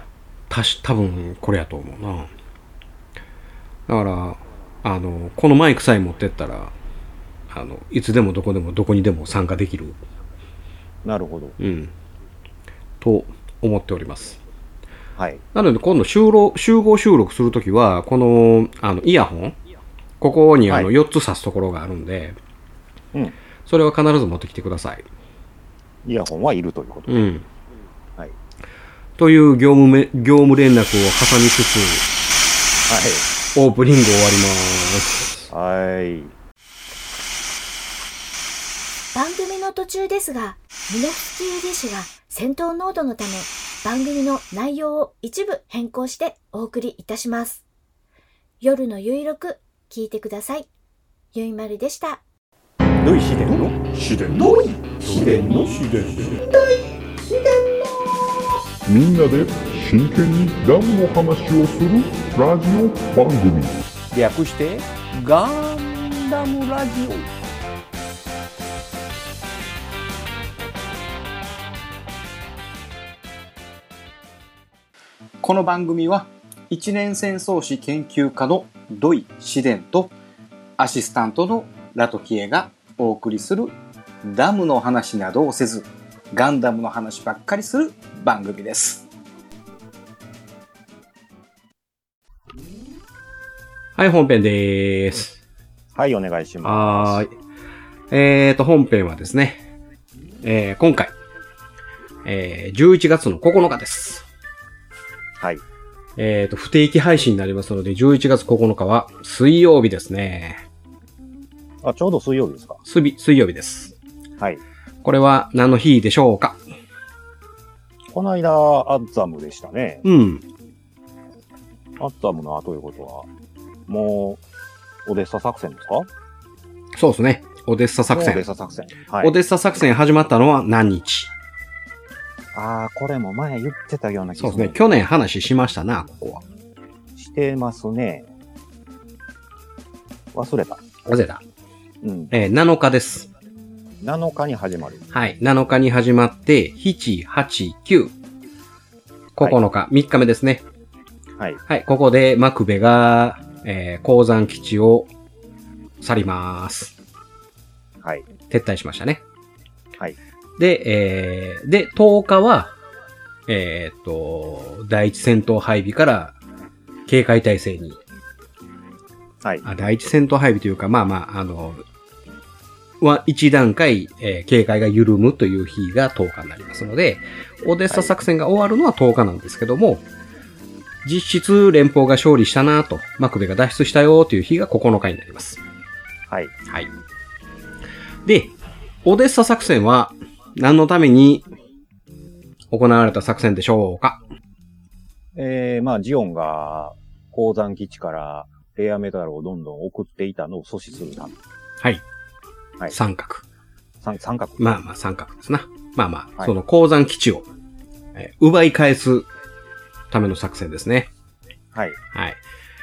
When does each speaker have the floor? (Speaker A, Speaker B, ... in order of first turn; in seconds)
Speaker A: 0.5-2.3, 3.9-6.7, 7.5-10.0, 11.6-11.9, 13.0-14.4, 15.5-19.6, 20.2-22.4, 23.7-25.1, 27.1-27.4, 29.2-32.0, 33.5-35.5, 53.0-53.7, 55.0-55.8, 64.1-67.1, 94.0-95.4, 96.6-97.3, 98.1-99.6, 100.4-101.1, 102.2-104.2, 106.2-110.6, 112.8-114.0, 115.0-116.6, 120.0-120.4, 127.0-128.4, 129.2-131.3, 134.4-136.4, 141.1-141.4, 142.3-143.3, 145.1-148.1, 149.4-150.6, 151.7-155.1, 156.0-156.9, 158.5-159.2, 160.6-162.7, 163.5-166.4, 167.1-168.0, 169.6-171.8, 173.0-180.1, 181.0-185.6, 188.2-191.5, 192.7-194.2, 202.9-203.4, 204.6-207.4, 208.1-209.3, 210.1-211.1, 212.1-212.4
Speaker B: 11.0-11.6, 15.2-15.4, 26.0-27.3, 32.9-33.3, 35.5-36.3, 95.9-97.2, 111.8-112.8, 118.1-120.0, 122.0-123.3, 123.9-124.4, 125.1-126.1, 128.1-129.3, 132.5-134.8, 137.2-138.3, 140.3-141.0, 142.0-142.3, 144.0-145.0, 158.0-158.3, 169.4-169.7, 177.9-178.2, 186.3-186.5, 195.3-201.4, 204.0-204.6, 211.7-212.0
Speaker C: 39.1-47.6, 48.6-50.7, 51.3-52.2
Speaker D: 58.9-63.8
Speaker E: 75.6-76.2, 76.8-80.0, 80.8-83.7, 84.3-85.8, 86.5-87.9, 88.5-89.0